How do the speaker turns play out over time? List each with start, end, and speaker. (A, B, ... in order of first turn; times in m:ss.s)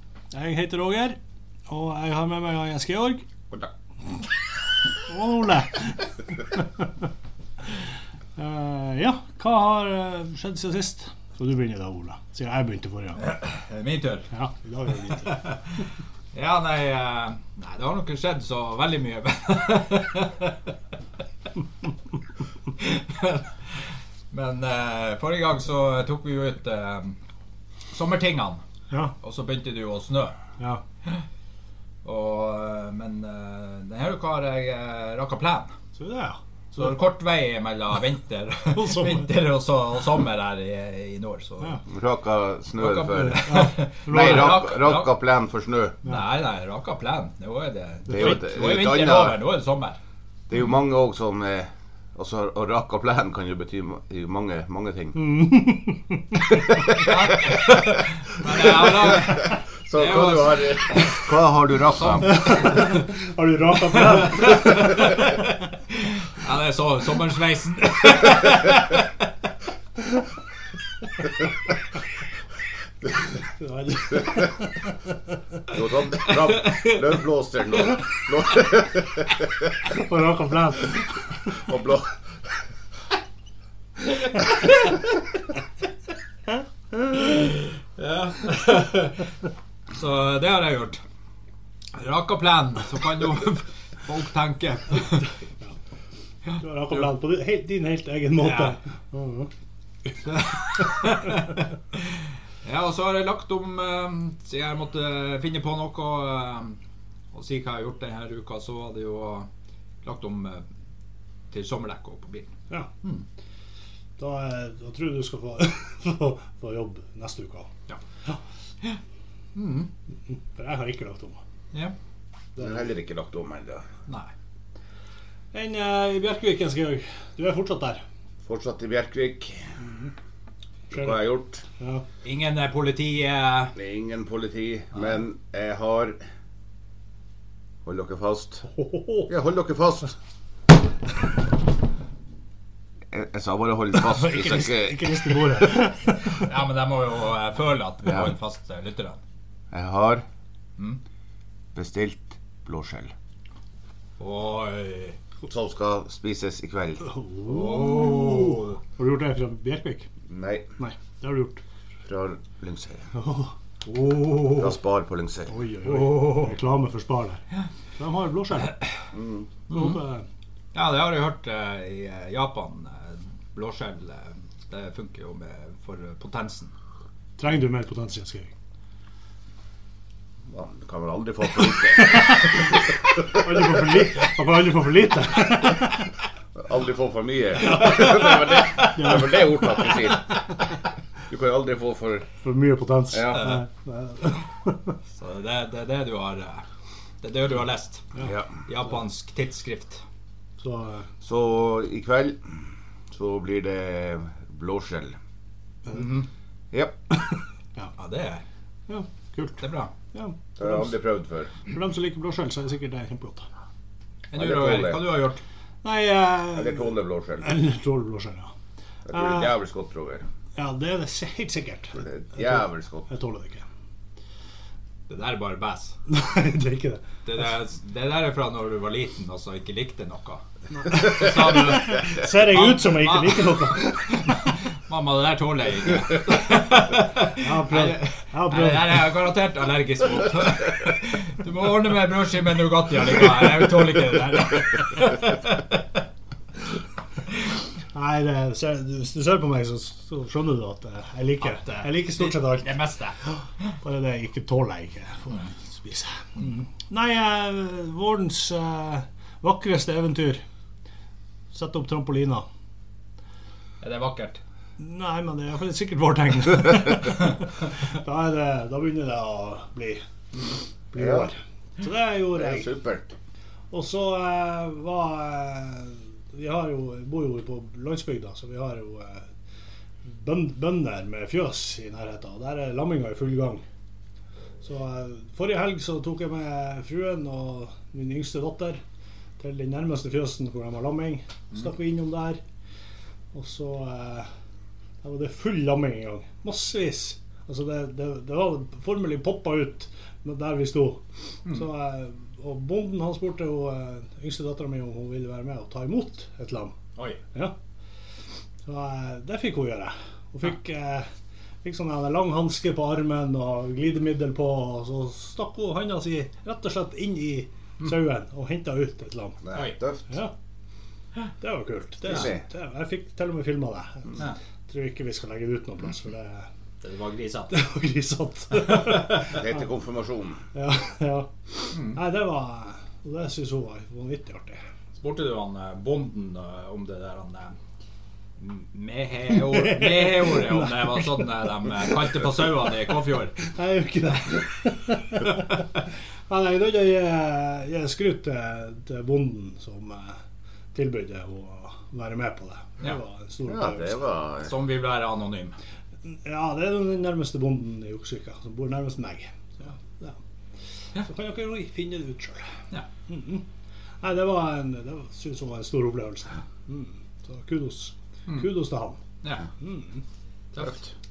0:00.3-0:01.2 A
0:01.7-0:03.2 A
0:05.1-0:06.9 A
0:08.4-0:13.2 A
0:13.2-0:14.3 B
0:14.3-0:15.4 A
0:15.2-0:15.8 B
0:16.3-0:20.6 B
0:22.8-0:27.2 B
0:27.9-0:28.6 B
0:29.2-0:30.4 B
0:32.0-0:35.7 B
0:36.0-0:36.9 A
0:36.8-0:41.8 B
0:38.7-0:39.3 A
0:41.9-0:46.0 C
0:42.8-0:45.1 B
0:43.2-0:44.6 A
0:46.0-0:50.0 B
0:48.1-0:49.4 C
0:50.5-0:55.2 C
0:55.1-0:56.6 A
0:56.7-0:57.9 C
0:57.0-1:01.3 B
0:58.5-1:02.3 C
1:01.9-1:03.0 B
1:02.2-1:05.2 A
1:04.4-1:09.1 B
1:13.5-1:15.1 A
1:15.7-1:19.7 C
1:19.9-1:21.1 A
1:21.6-1:22.1 C
1:27.1-1:29.3 B
1:29.9-1:31.0 B
1:31.9-1:35.3 B
1:36.5-1:39.5 A
1:38.4-1:38.7 B
1:40.3-1:46.8 B
1:47.3-1:49.5 B
1:50.0-1:50.6 B
1:51.5-1:53.2 B
1:54.2-1:57.7 A
1:59.5-1:59.9 B
2:00.3-2:01.4 A
2:02.6-2:02.8 A
2:02.6-2:03.8 C
2:05.5-2:08.0 A
2:08.4-2:09.7 C
2:09.8-2:10.1 A
2:10.9-2:11.6 C
2:10.9-2:11.2 A
2:11.8-2:12.0 A
2:12.2-2:13.7 B
2:13.7-2:16.2 C
2:17.8-2:18.6 C
2:18.7-2:19.3 A
2:19.3-2:20.1 C
2:23.1-2:25.6 C
2:24.0-2:26.4 A
2:26.3-2:29.2 B
2:28.0-2:28.3 C
2:29.7-2:30.2 C
2:31.7-2:33.1 C
2:34.2-2:35.2 B
2:35.5-2:37.1 C
2:37.0-2:40.1 A
2:37.5-2:38.8 B
2:40.3-2:40.7 C
2:40.8-2:41.6 A
2:42.0-2:43.1 C
2:43.1-2:43.5 A
2:43.8-2:44.7 B
2:44.5-2:45.5 C
2:45.5-2:47.4 A
2:45.8-2:46.4 B
2:48.0-2:48.8 A
2:49.1-2:49.5 C
2:49.7-2:50.2 A
2:49.7-2:50.0 B
2:50.7-2:56.7 B
2:57.4-2:58.5 A
3:00.5-3:03.2 C
3:01.9-3:02.8 A
3:03.3-3:06.1 A
3:06.6-3:10.5 C
3:07.6-3:10.0 A
3:11.3-3:12.3 C
3:12.4-3:15.0 A
3:13.1-3:13.6 C
3:13.3-3:13.6 B
3:15.2-3:16.6 B
3:17.2-3:20.0 B
3:18.2-3:18.5 C
3:20.6-3:21.1 A
3:21.2-3:25.2 C
3:25.9-3:26.3 B
3:28.0-3:28.4 B
3:28.9-3:29.6 A
3:29.6-3:29.9 B
3:30.1-3:30.9 A
3:30.6-3:31.6 C
3:31.6-3:33.5 A
3:34.3-3:35.4 B
3:34.3-3:35.0 C
3:35.8-3:36.9 A
3:36.5-3:37.5 C
3:37.4-3:38.5 A
3:39.1-3:40.3 C
3:39.1-3:39.5 A
3:40.6-3:43.6 A
3:42.0-3:43.1 C
3:45.1-3:46.0 B
3:46.1-3:47.0 A
3:47.2-4:05.6 B
3:50.7-3:54.3 A
3:57.3-3:59.1 A
4:07.9-4:12.7 A
4:11.5-4:13.2 B
4:13.8-4:20.4 A
4:21.5-4:22.4 A
4:23.8-4:24.4 B
4:24.8-4:30.0 A
4:30.9-4:32.7 A
4:31.0-4:31.3 C
4:32.3-4:33.1 C
4:33.7-4:39.3 A
4:40.0-4:43.6 A
4:44.6-4:48.8 A
4:49.4-4:52.4 A
4:53.3-4:54.3 A
4:55.0-5:06.8 A
5:08.6-5:11.1 A
5:11.6-5:19.4 A
5:19.4-5:20.0 C
5:20.1-5:20.3 A
5:21.4-5:26.5 A
5:22.0-5:22.4 C
5:26.8-5:27.5 B
5:27.5-5:29.4 A
5:29.3-5:30.4 C
5:30.5-5:34.6 A
5:31.7-5:32.0 B
5:35.0-5:37.5 B
5:38.4-5:43.3 B
5:39.4-5:41.2 A
5:43.4-5:45.7 A
5:46.3-5:50.2 A
5:50.7-5:54.0 A
5:53.5-5:54.5 C
5:54.4-5:55.5 B
5:56.0-6:00.2 A
6:01.0-6:02.5 A
6:03.1-6:03.4 A
6:04.0-6:09.0 A
6:09.6-6:10.0 A
6:10.5-6:10.9 B